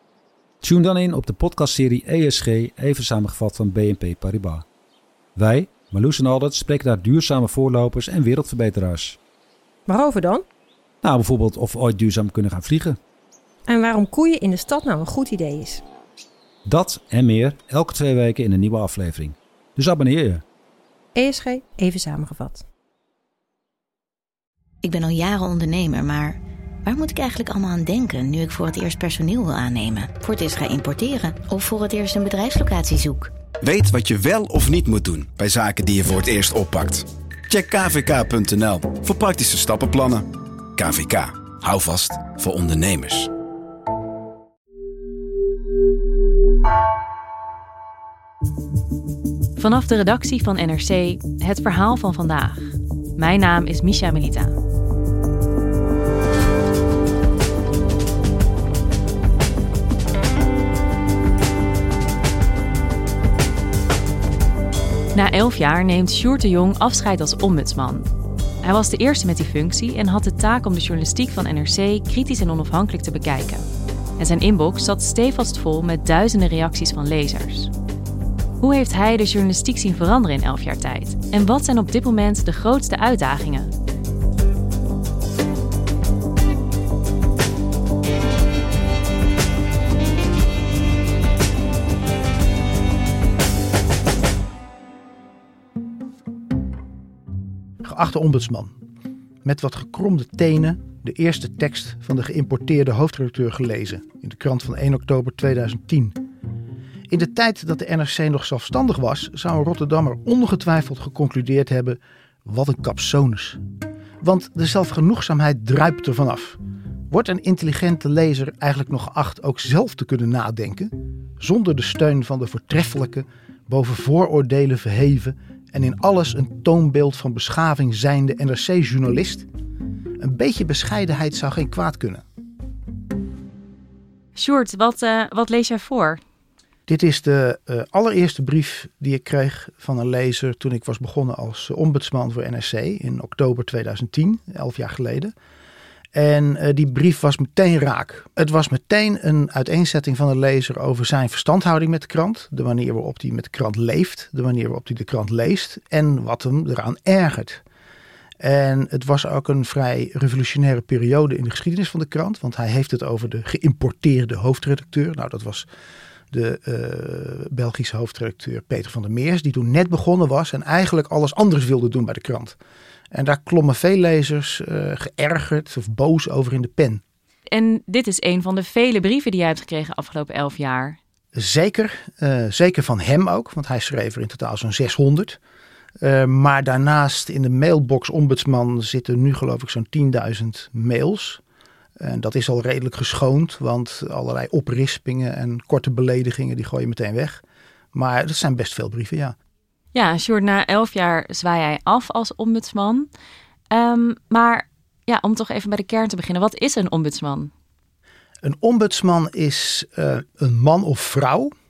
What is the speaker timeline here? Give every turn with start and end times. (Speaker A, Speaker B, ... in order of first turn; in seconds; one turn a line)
Speaker A: 0.6-4.7
Speaker A: 5.3-9.2
Speaker B: 9.9-10.4
Speaker A: 11.0-13.0
Speaker B: 13.7-15.8
Speaker A: 16.7-20.4
Speaker B: 21.1-22.7
Speaker C: 24.8-33.3
Speaker D: 33.6-40.2
Speaker D: 40.8-43.3
Speaker E: 49.6-54.6
Speaker E: 65.1-68.1
Speaker E: 68.6-73.6
Speaker E: 74.2-77.7
Speaker E: 78.6-83.7
Speaker F: 97.8-98.7
Speaker F: 99.4-106.2
Speaker F: 107.1-113.6
Speaker F: 114.2-116.6
Speaker F: 117.1-129.5
Speaker F: 130.2-132.2
Speaker E: 134.4-136.2
Speaker F: 136.9-145.3
Speaker F: 146.1-157.6
Speaker F: 158.4-165.7
Speaker F: 166.3-172.6
Speaker F: 173.1-177.0
Speaker E: 177.5-181.0
Speaker F: 181.3-185.4
Speaker F: 186.0-191.4
Speaker F: 192.0-197.4
Speaker F: 197.9-199.3
Speaker E: 199.9-203.1
Speaker E: 203.7-207.5
Speaker F: 208.4-211.5